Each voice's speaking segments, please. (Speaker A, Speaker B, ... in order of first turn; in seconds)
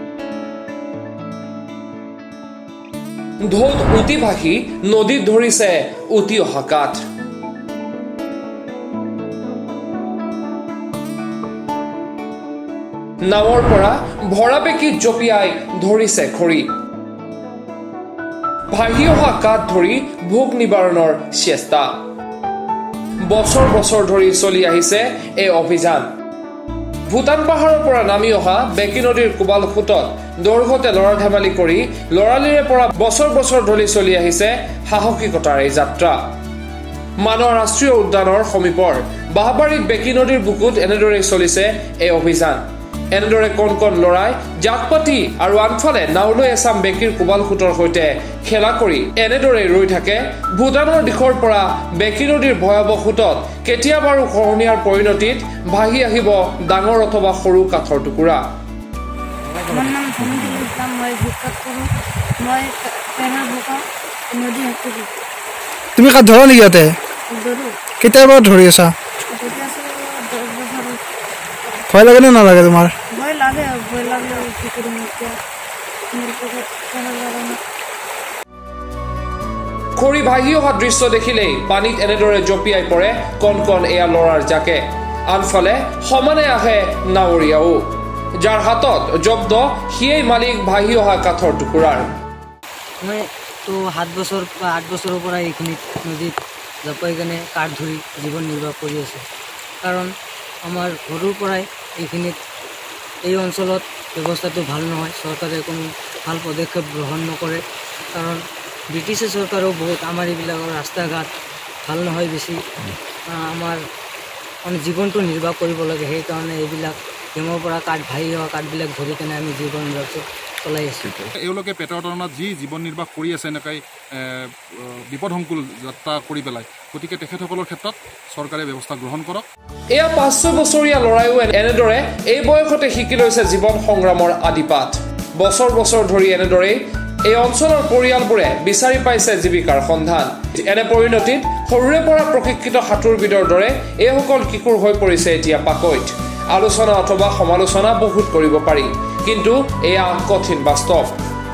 Speaker A: 3.5-7.0, 13.2-16.7, 18.7-22.0, 23.3-26.1, 27.1-36.2, 37.2-58.4, 80.0-92.1, 129.9-151.2
Speaker B: 59.7-61.9, 62.4-65.1, 67.3-67.7, 69.3-71.0, 73.1-75.4, 76.1-77.6
Speaker C: 66.0-67.0, 68.0-68.9, 71.9-72.9
Speaker D: 93.0-96.3, 96.8-99.2, 100.7-102.4, 103.2-107.6, 108.1-108.4, 108.9-111.3, 111.8-112.6, 113.3-113.8, 114.6-121.1
Speaker E: 121.3-129.4